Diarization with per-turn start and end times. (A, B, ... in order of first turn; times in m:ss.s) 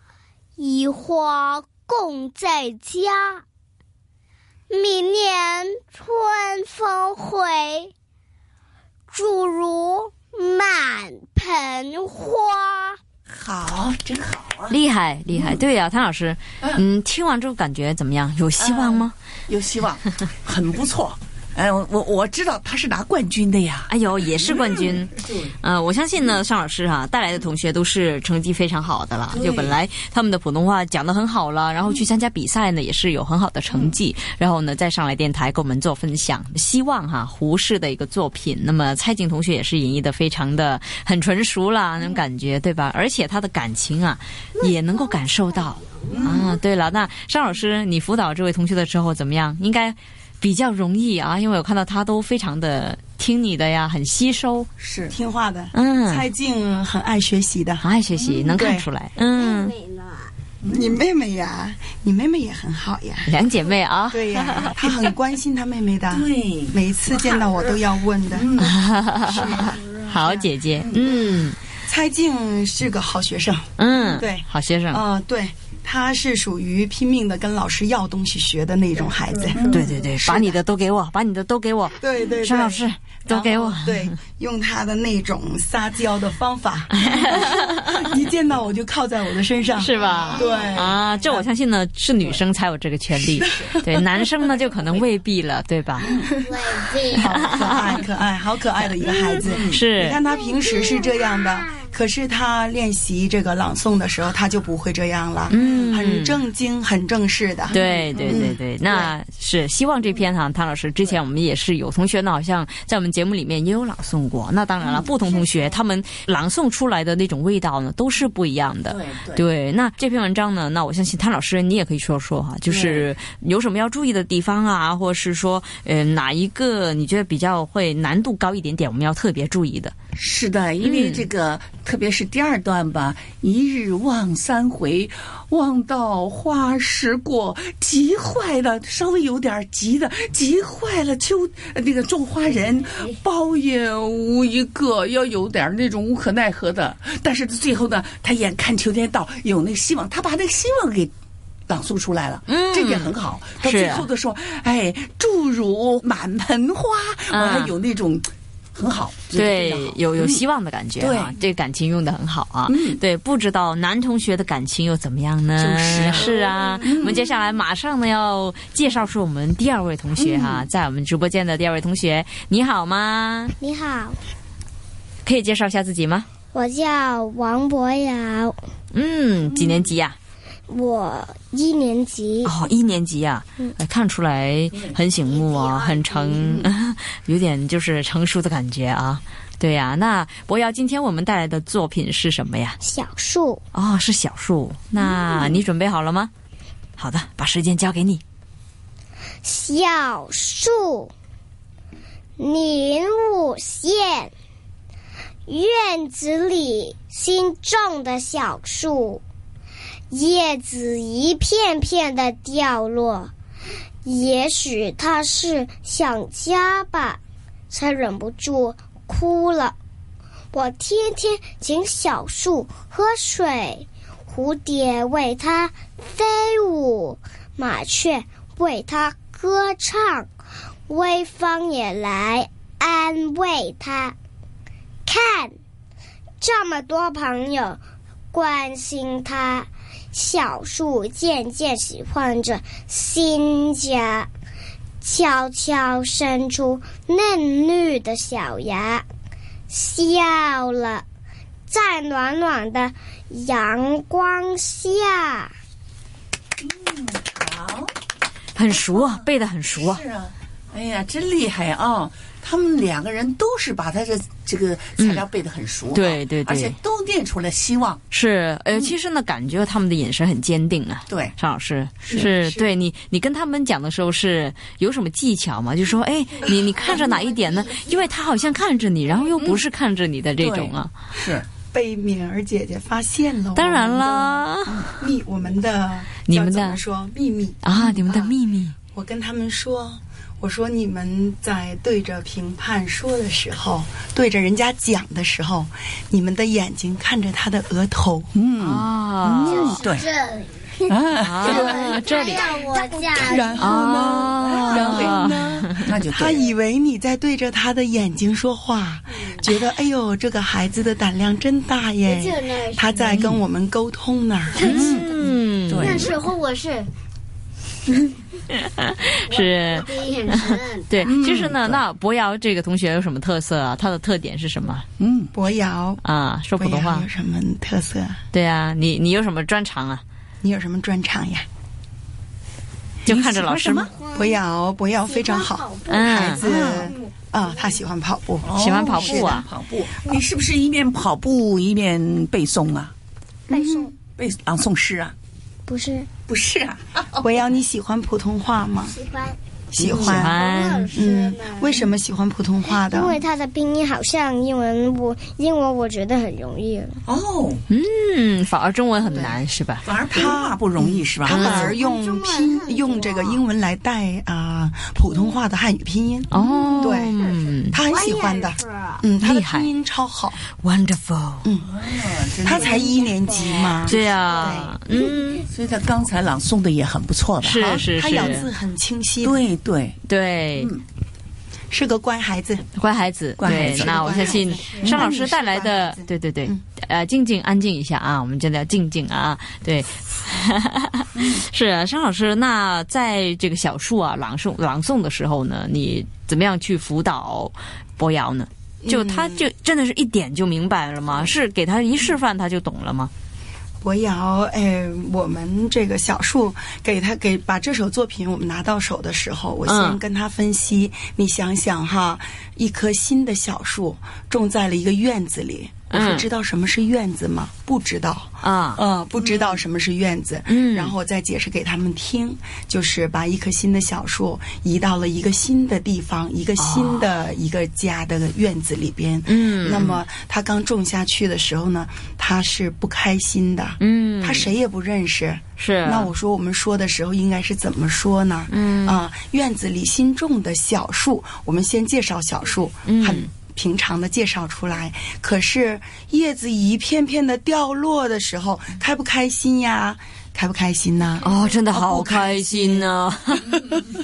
0:00.6-0:03.4 A
0:04.7-0:07.9 A
0:09.1-0:13.0 A
0:13.3-0:14.8 B
0:14.7-0:19.1 C
0:15.3-0:15.6 B
0:18.6-0:25.5 B
0:23.9-0:54.7 C
0:29.3-0:29.8 B
0:33.7-0:34.0 B
0:46.1-0:46.5 B
0:54.8-0:55.1 B
0:55.1-0:57.9 D
0:55.7-0:56.3 C
0:57.8-0:59.7 C
0:58.2-0:58.5 B
0:58.5-0:58.9 D
0:59.2-1:00.3 A
1:00.6-1:00.9 B
1:00.6-1:03.3 D
1:03.2-1:04.9 C
1:04.1-1:08.6 D
1:06.1-1:06.8 B
1:08.3-1:08.7 B
1:08.6-1:11.6 C
1:09.3-1:10.4 D
1:09.4-1:10.0 A
1:10.8-1:11.0 B
1:11.8-1:20.6 D
1:13.8-1:15.0 C
1:19.6-1:19.9 B
1:19.7-1:24.2 C
1:22.0-1:31.5 D
1:26.9-1:28.1 C
1:29.8-1:36.1 C
1:30.0-1:31.0 A
1:33.3-1:34.3 D
1:36.0-1:36.3 B
1:36.2-1:36.5 D
1:36.2-1:38.0 A
1:37.2-1:49.1 D
1:37.2-1:37.8 C
1:38.8-1:40.2 C
1:39.4-1:39.8 B
1:40.4-1:41.7 A
1:45.5-1:46.4 C
1:47.7-2:09.9 C
1:47.8-1:48.3 B
1:54.8-1:55.8 B
1:58.9-1:59.4 B
2:02.7-2:03.1 B
2:10.2-2:31.1 B
2:10.8-2:11.2 C
2:31.7-2:40.4 B
2:32.5-2:34.1 C
2:37.3-2:37.7 C
2:39.3-2:53.5 C
2:41.0-2:41.3 B
2:42.7-2:43.0 B
2:45.6-2:47.2 B
2:50.2-2:50.7 B
2:53.6-2:54.2 A
2:55.2-2:56.3 C
2:56.5-2:58.6 A
2:58.9-3:00.2 C
2:59.5-2:59.8 B
3:00.7-3:02.6 A
3:02.4-3:12.8 C
3:04.7-3:05.0 B
3:12.8-3:13.6 A
3:13.7-3:16.3 C
3:17.0-3:18.2 C
3:19.4-3:21.1 A
3:22.4-3:24.3 A
3:25.5-3:29.2 A
3:30.1-3:33.3 A
3:34.0-3:37.2 A
3:37.7-3:39.8 A
3:40.5-3:50.3 A
3:50.9-3:54.2 A
3:55.0-3:55.5 A
3:56.4-3:57.8 A
3:58.3-4:04.3 A
4:05.0-4:09.0 A
4:09.7-4:11.0 A
4:11.7-4:15.5 A
4:16.6-4:17.9 B
4:18.5-4:20.0 C
4:18.7-4:28.0 B
4:25.0-4:25.2 C
4:25.9-4:26.8 C
4:28.1-4:40.9 C
4:31.1-4:31.3 B
4:32.1-4:32.7 D
4:36.5-4:38.0 A
4:40.4-4:41.4 B
4:41.7-4:44.5 D
4:43.5-4:44.9 C
4:45.0-4:48.3 D
4:46.2-4:46.8 C
4:47.6-4:48.8 C
4:48.9-4:58.3 D
4:58.3-5:00.1 B
4:58.6-4:59.8 C
4:59.4-5:04.4 A
5:00.9-5:01.8 B
5:01.2-5:02.6 C
5:03.1-5:06.5 B
5:03.6-5:05.9 C
5:04.2-5:14.7 D
5:12.0-5:13.2 A
5:13.1-5:13.4 B
5:14.5-5:15.2 A
5:14.6-5:16.1 C
5:14.7-5:15.1 B
5:15.7-5:16.1 B
5:15.8-5:16.9 A
5:18.5-5:24.8 C
5:19.3-5:20.9 A
5:21.0-5:21.8 B
5:25.0-5:25.3 B
5:25.3-5:26.0 D
5:26.0-5:27.1 C
5:26.5-5:28.2 D
5:28.3-5:30.0 C
5:30.4-5:31.4 D
5:33.0-5:33.9 C
5:33.1-5:33.6 D
5:33.5-5:33.8 B
5:33.8-5:34.4 A
5:34.1-5:39.3 D
5:35.1-5:37.8 A
5:35.9-5:36.4 C
5:36.4-5:36.9 B
5:38.4-5:42.9 B
5:38.6-5:39.5 C
5:43.5-5:43.9 A
5:43.5-5:43.8 D
5:44.1-5:45.1 B
5:45.6-5:46.1 A
5:46.3-5:47.2 B
5:47.2-5:48.9 D
5:48.9-5:49.4 A
5:49.7-5:50.4 D
5:49.8-5:50.2 B
5:49.9-5:51.0 C
5:50.1-5:51.9 A
5:50.9-5:53.2 D
5:52.7-5:57.0 A
5:57.0-5:57.6 B
5:57.7-5:59.9 C
5:59.8-6:01.7 B
6:00.1-6:07.1 D
6:01.3-6:03.4 A
6:01.3-6:01.7 C
6:05.1-6:05.4 A
6:06.3-6:07.8 C
6:06.3-6:09.0 A
6:07.7-6:10.4 D
6:09.2-6:09.7 C
6:10.6-6:11.5 C
6:11.4-6:11.7 D
6:11.6-6:12.8 B
6:12.4-6:14.7 D
6:12.4-6:14.4 A
6:13.9-6:15.5 C
6:15.5-6:17.9 B
6:17.4-6:18.5 C
6:17.9-6:19.4 D
6:19.2-6:20.0 B
6:20.0-6:20.7 C
6:20.6-6:20.8 B
6:21.7-6:22.6 D
6:22.8-6:43.1 C
6:23.4-6:25.1 B
6:23.4-6:26.6 D
6:38.8-6:39.5 D
6:43.8-7:32.9 D
6:49.6-6:50.0 C
6:55.9-6:56.3 C
6:58.4-6:58.8 C
6:59.2-6:59.6 B
7:00.5-7:00.9 C
7:06.6-7:07.1 C
7:09.3-7:10.0 C
7:13.8-7:14.5 C
7:15.6-7:16.1 C
7:18.5-7:19.0 C
7:22.9-7:23.3 C
7:31.2-7:33.7 C